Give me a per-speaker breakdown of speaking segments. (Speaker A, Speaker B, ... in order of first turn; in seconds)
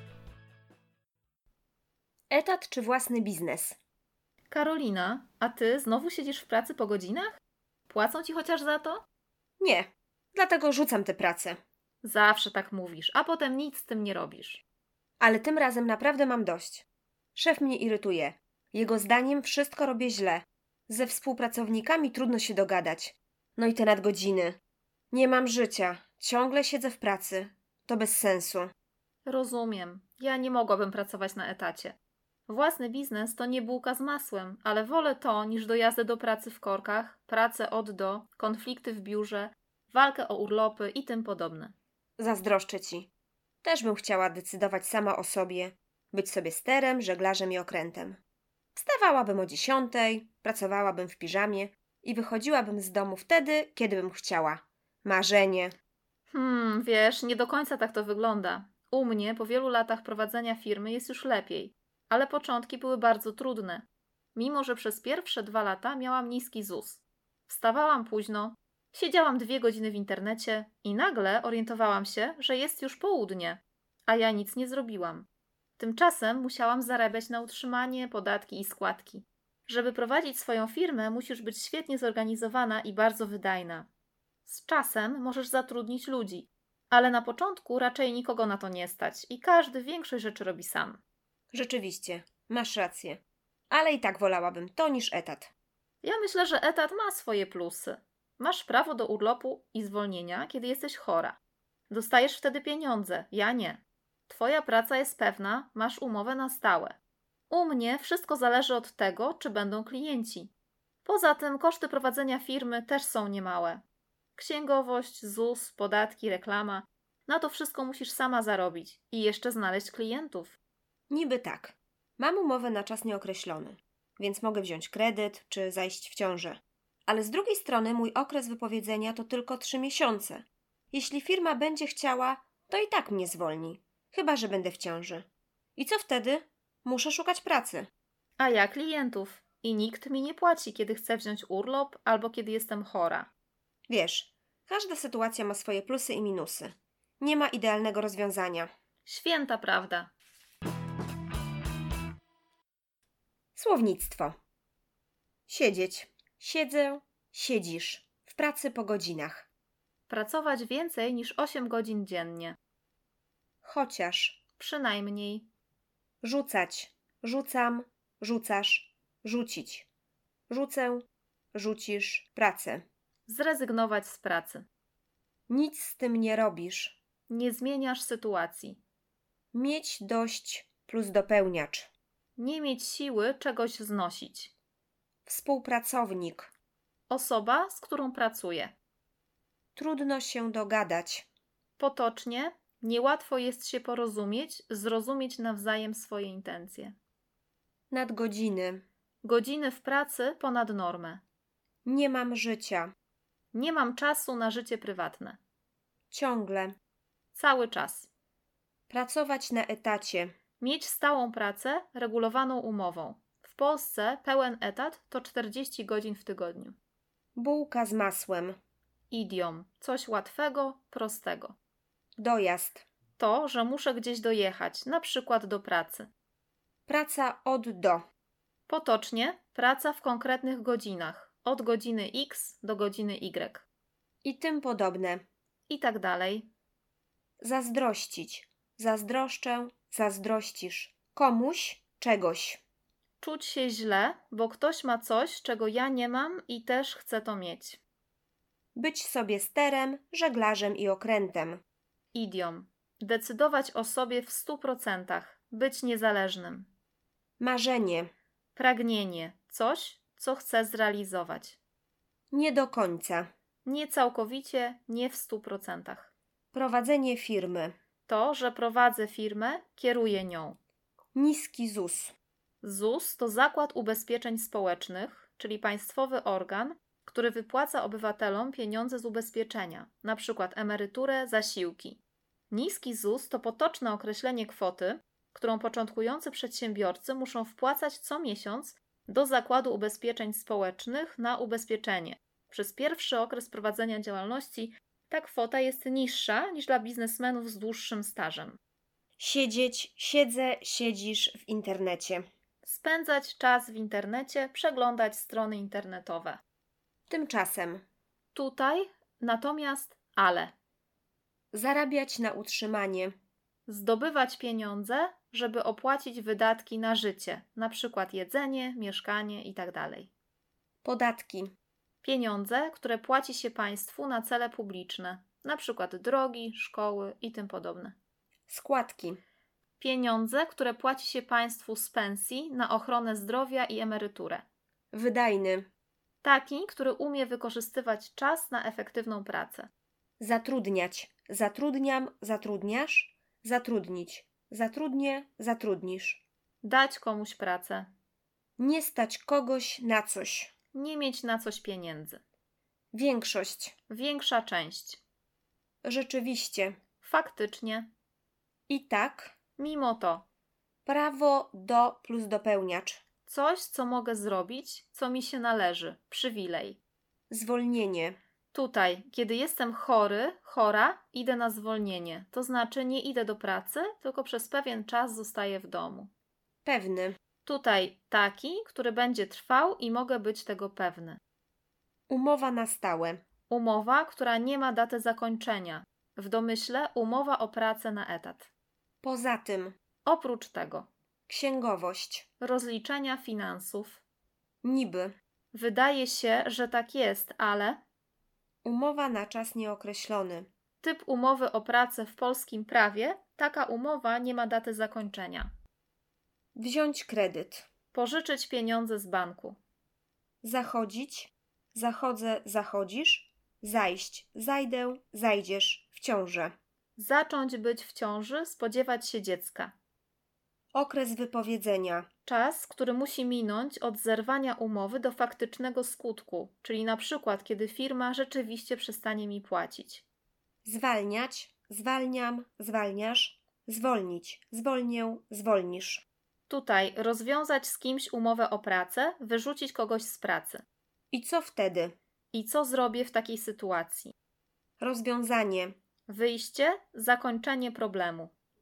Speaker A: 2.3-3.8, 9.6-11.6, 15.2-24.6, 25.1-28.7, 42.2-43.1, 43.6-48.2, 48.8-55.8, 91.5-95.5, 121.1-137.9, 143.9-148.7, 153.6-154.4, 155.5-159.5, 163.6-164.4, 166.2-169.9, 170.5-172.8, 175.5-177.0, 179.5-181.9, 185.3-186.5, 189.8-191.3, 197.9-198.8, 201.8-202.9, 206.1-206.8, 208.9-210.3, 217.4-218.6, 222.2-222.8, 226.9-228.0, 234.2-235.2, 237.4-242.6, 248.8-251.6, 257.4-258.1, 262.3-263.3, 266.5-267.7, 271.1-272.1, 299.2-302.2, 307.1-307.8, 311.5-313.1, 320.8-321.5, 328.5-329.2, 334.9-335.7, 340.2-346.2, 348.6-350.5, 352.9-353.7, 355.8-356.8, 358.7-359.4, 360.9-363.0, 367.3-368.2, 376.6-377.2, 382.1-383.2, 389.0-389.8, 391.3-392.3, 394.6-395.1, 398.6-400.5, 406.6-407.7, 410.4-416.5, 420.7-422.1, 430.6-436.1, 441.1-441.9, 444.8-445.8
Speaker B: 4.5-7.4, 7.9-9.0, 12.0-14.6, 29.3-32.0, 32.5-41.7, 56.3-75.3, 75.8-83.9, 84.5-91.0, 96.0-101.4, 101.9-107.0, 107.5-110.5, 111.0-113.8, 114.4-120.6, 138.4-143.3, 149.1-150.1, 160.1-162.6, 164.6-165.5, 173.3-174.7, 177.3-178.8, 182.4-184.5, 187.1-188.7, 191.8-197.0, 199.2-201.2, 203.5-205.4, 207.3-208.1, 210.6-216.8, 219.1-221.6, 223.2-226.1, 228.7-233.7, 235.7-236.5, 243.2-247.8, 252.1-256.7, 258.6-261.6, 263.6-266.1, 268.1-270.6, 272.6-282.0, 282.5-298.6, 302.6-306.4, 308.4-310.5, 313.7-320.1, 322.0-327.9, 329.8-334.4, 336.2-339.7, 346.6-347.9, 350.7-352.2, 353.9-355.0, 357.0-357.9, 359.6-360.2, 363.3-366.8, 368.5-376.1, 377.4-381.2, 383.5-388.5, 390.1-390.9, 392.4-394.0, 395.5-397.8, 400.8-405.5, 407.9-409.6, 417.0-419.7, 422.3-430.0, 436.5-440.6, 442.3-444.1, 446.1-448.3